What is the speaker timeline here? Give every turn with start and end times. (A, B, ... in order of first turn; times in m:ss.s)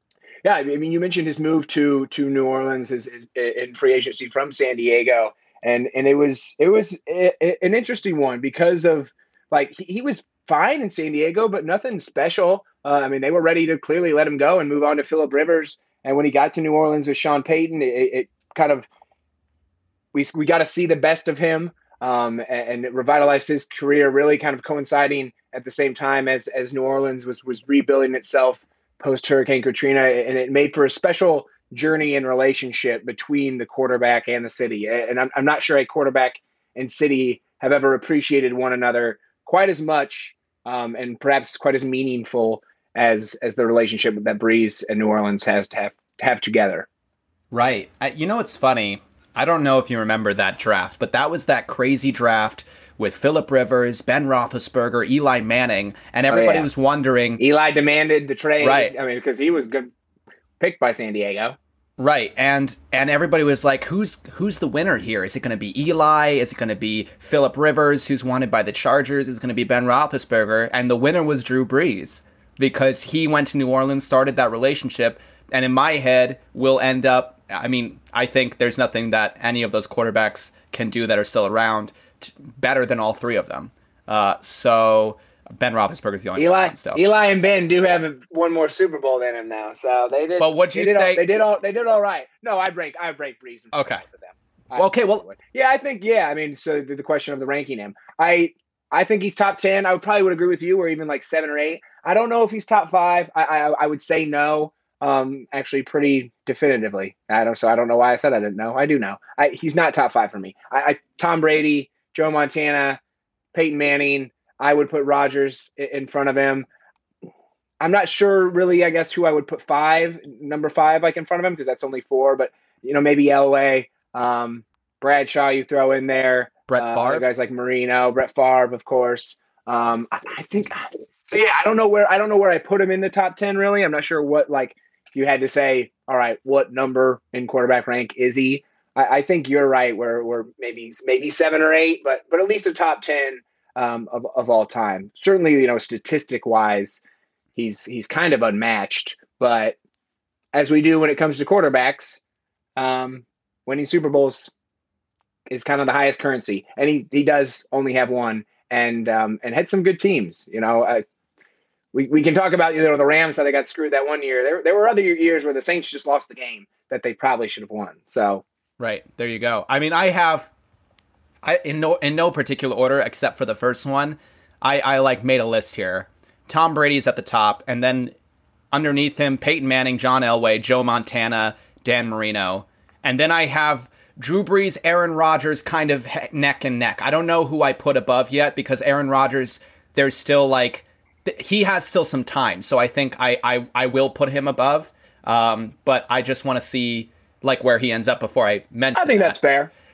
0:00.4-0:18.8 A
0:20.1-0:46.9 A
0:47.5-0:57.4 B
0:56.3-0:56.7 A
0:57.4-0:59.9 A
0:58.6-0:58.9 B
1:00.6-1:01.6 A
1:02.0-1:27.0 B
1:26.4-1:53.0 A
1:30.4-1:31.2 B
1:33.7-1:34.0 B
1:34.8-1:35.3 B
1:53.5-1:56.7 A
1:57.8-2:27.0 A
2:06.7-2:07.2 B
2:27.5-2:29.8 A
2:30.5-2:32.2 A
2:32.8-2:34.5 A
2:35.5-2:41.0 A
2:41.9-2:48.4 A
2:48.8-2:50.5 B
2:51.4-2:58.1 B
2:58.7-3:19.4 B
3:18.9-3:19.7 A